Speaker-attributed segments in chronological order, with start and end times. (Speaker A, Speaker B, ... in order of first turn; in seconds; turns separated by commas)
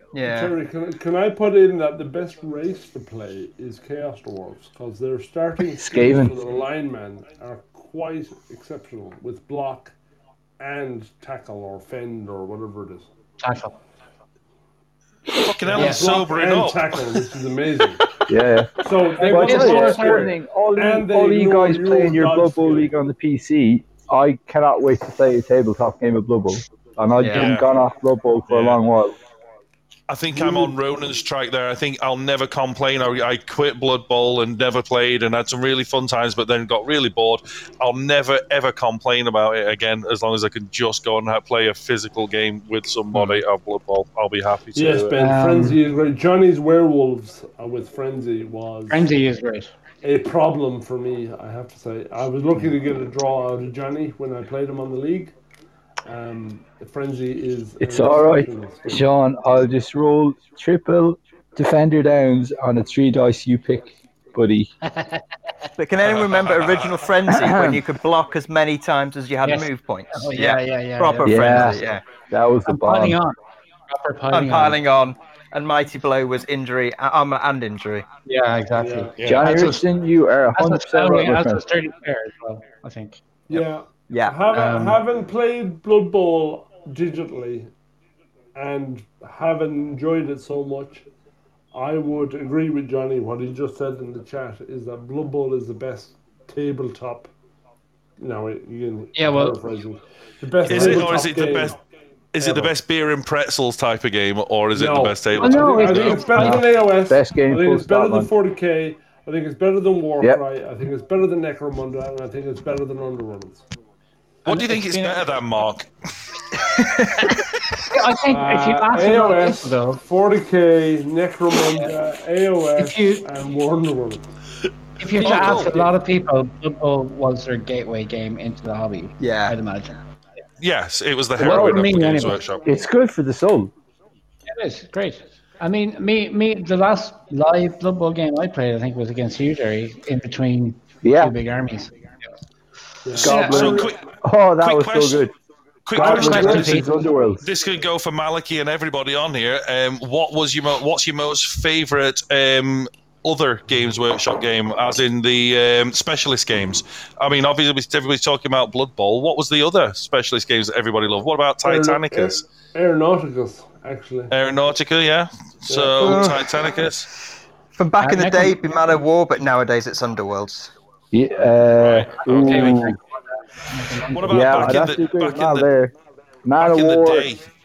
Speaker A: 0.1-0.5, Speaker B: 0.2-9.9, Speaker C: 5.8-6.3, Speaker B: 10.6-13.1, Speaker D: 13.4-13.8, Speaker E: 15.3-17.2, Speaker B: 15.6-18.1, Speaker D: 15.8-16.2, Speaker C: 18.3-29.2, Speaker B: 18.8-22.9, Speaker D: 19.2-20.3, Speaker A: 27.2-27.5, Speaker E: 27.3-27.7, Speaker E: 28.5-28.8, Speaker E: 30.1-45.1, Speaker B: 30.4-30.7, Speaker B: 44.8-49.1, Speaker D: 45.2-45.8, Speaker D: 48.9-49.7, Speaker B: 50.0-55.4, Speaker B: 56.1-59.1, Speaker C: 57.8-64.7, Speaker D: 64.8-65.2, Speaker A: 65.8-72.0, Speaker E: 66.0-67.0, Speaker C: 67.3-67.8, Speaker D: 69.5-71.8, Speaker C: 71.2-73.2, Speaker D: 72.7-73.4, Speaker D: 73.9-74.8, Speaker A: 74.3-78.1, Speaker D: 78.3-79.9, Speaker B: 78.8-79.1, Speaker E: 79.2-79.5, Speaker C: 79.2-81.6, Speaker D: 80.5-83.2, Speaker B: 83.5-87.7, Speaker A: 83.5-84.4, Speaker D: 84.5-85.0, Speaker B: 88.5-91.1, Speaker B: 91.7-97.3, Speaker B: 98.2-101.8, Speaker D: 99.2-99.6, Speaker E: 100.7-101.8, Speaker E: 102.3-106.3, Speaker B: 102.4-102.7, Speaker B: 104.7-113.6, Speaker D: 105.4-106.6, Speaker C: 106.4-108.3, Speaker D: 114.5-115.2, Speaker E: 114.5-115.9, Speaker A: 116.8-117.2, Speaker D: 117.8-120.0, Speaker B: 118.3-124.3, Speaker D: 122.8-123.2, Speaker D: 125.0-130.0, Speaker E: 125.2-125.8, Speaker B: 125.2-125.8, Speaker A: 129.2-129.6, Speaker E: 130.6-132.6, Speaker D: 131.4-132.4, Speaker C: 132.6-133.7, Speaker D: 134.5-142.0, Speaker C: 141.0-141.3, Speaker B: 143.1-143.9, Speaker C: 143.2-145.3, Speaker D: 143.2-143.7, Speaker E: 143.3-144.0, Speaker E: 144.6-145.3, Speaker E: 145.9-146.8, Speaker D: 145.9-146.9, Speaker B: 146.0-146.8, Speaker C: 146.0-147.4, Speaker E: 147.4-162.4, Speaker B: 161.6-164.3, Speaker E: 164.3-167.1, Speaker B: 165.7-166.4, Speaker A: 166.1-166.4, Speaker A: 167.8-170.7, Speaker D: 168.0-168.6, Speaker C: 171.1-173.0, Speaker E: 171.8-172.8, Speaker D: 172.3-173.0, Speaker D: 173.7-174.7, Speaker E: 174.1-175.7, Speaker C: 174.3-175.9, Speaker C: 176.4-177.3, Speaker E: 176.6-177.5